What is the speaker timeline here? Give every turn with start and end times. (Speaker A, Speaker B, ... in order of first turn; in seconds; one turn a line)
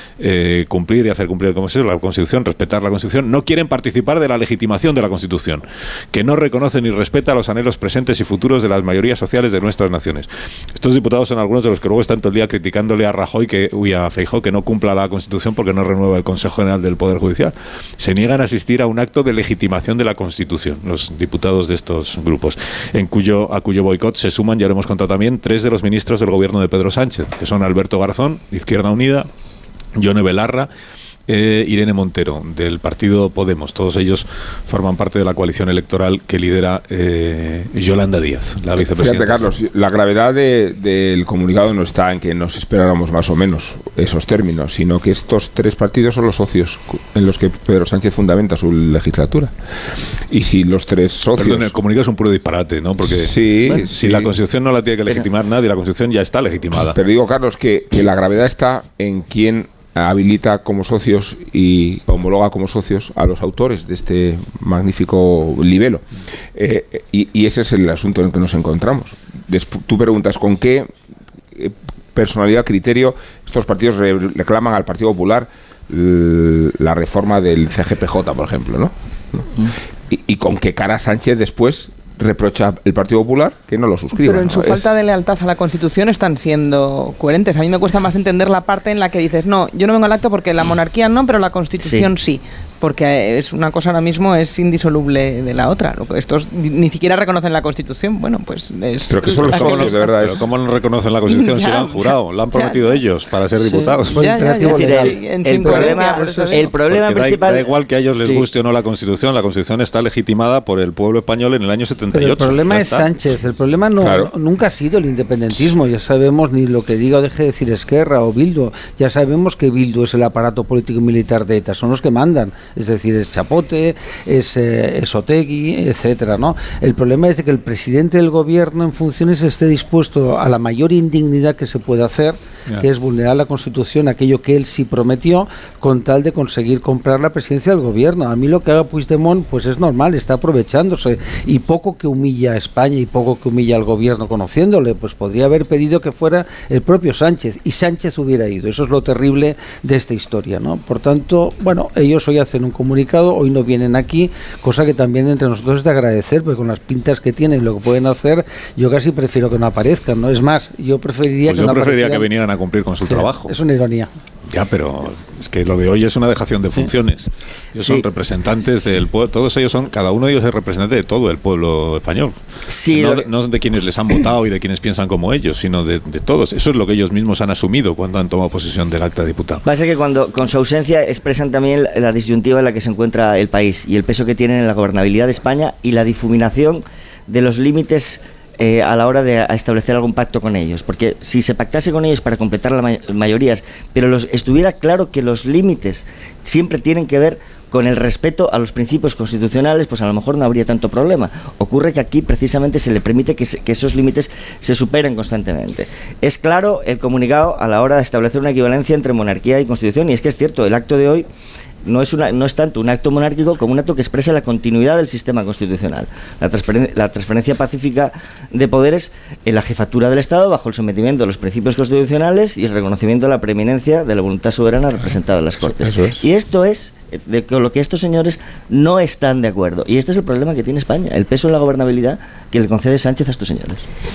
Speaker A: 0.2-29.3
Speaker A: 30.0-30.7
Speaker A: 31.3-39.5
Speaker B: 38.8-49.5
Speaker B: 50.3-51.7
Speaker A: 51.4-57.0
Speaker B: 53.0-54.3
Speaker B: 56.9-66.0
Speaker B: 66.5-70.9
Speaker B: 71.5-84.9
Speaker C: 84.2-100.2
Speaker D: 91.8-92.1
Speaker B: 99.1-100.5
Speaker A: 99.4-104.2
Speaker C: 101.3-103.0
Speaker E: 103.6-106.7
Speaker C: 104.2-106.7
Speaker D: 104.4-108.5
Speaker A: 106.8-113.1
Speaker E: 112.1-162.3
Speaker B: 114.0-114.3
Speaker A: 161.5-163.6
Speaker E: 163.1-164.1
Speaker A: 164.5-172.3
Speaker D: 167.8-168.0
Speaker D: 172.7-173.3
Speaker A: 172.9-179.6
Speaker D: 179.7-211.3
Speaker D: 211.8-233.8
Speaker B: 225.8-226.2